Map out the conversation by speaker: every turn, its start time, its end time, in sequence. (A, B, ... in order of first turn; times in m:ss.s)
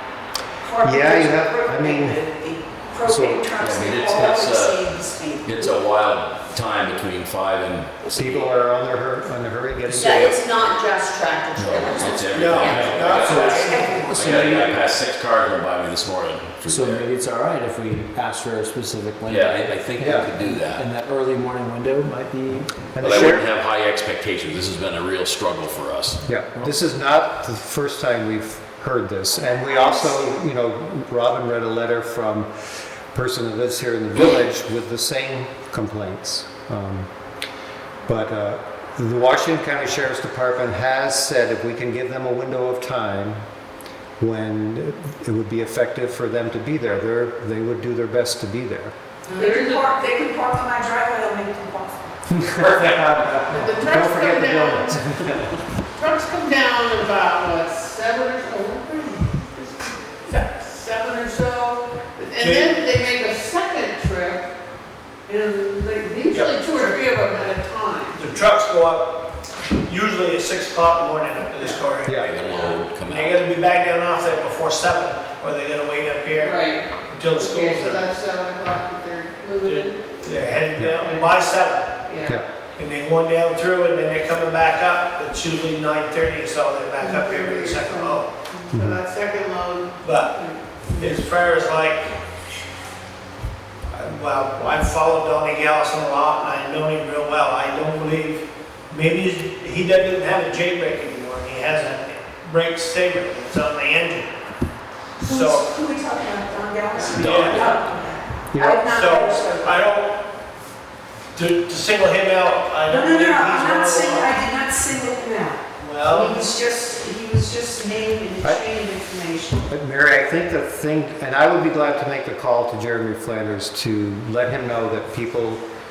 0:00.6-0:05.8 A
0:00.8-0:02.2 B
0:03.0-0:03.5 B
0:03.6-0:08.6 C
0:08.1-0:10.4 B
0:10.0-0:14.5 D
0:11.6-0:17.1 C
0:11.7-0:12.2 A
0:13.2-0:14.3 A
0:14.1-0:14.8 E
0:16.7-0:22.8 E
0:19.3-0:20.8 C
0:20.0-0:20.3 B
0:22.9-0:23.5 B
0:23.0-0:26.2 C
0:26.2-0:37.1 B
0:38.0-0:43.4 B
0:44.2-0:48.9 B
0:49.3-0:49.9 F
0:49.3-0:52.1 A
0:52.3-0:55.5 B
0:53.5-0:55.0 F
0:56.0-1:04.4 F
1:02.4-1:02.7 D
1:05.3-1:08.2 F
1:08.2-1:09.3 D
1:09.8-1:16.6 D
1:12.2-1:13.4 C
1:16.4-1:20.1 F
1:17.1-1:18.0 D
1:19.6-1:22.0 D
1:20.8-1:21.0 B
1:22.1-1:22.4 F
1:22.8-1:28.2 D
1:27.0-1:31.1 F
1:28.7-1:29.0 B
1:30.0-1:30.3 D
1:31.0-1:32.1 D
1:33.9-1:44.3 D
1:45.2-1:45.6 D
1:45.2-1:49.7 A
1:47.1-1:47.6 C
1:47.2-1:47.7 D
1:48.5-1:48.8 B
1:48.7-1:50.3 D
1:51.3-1:54.4 D
1:52.9-1:59.7 A
1:55.8-1:56.4 D
1:59.7-2:05.6 B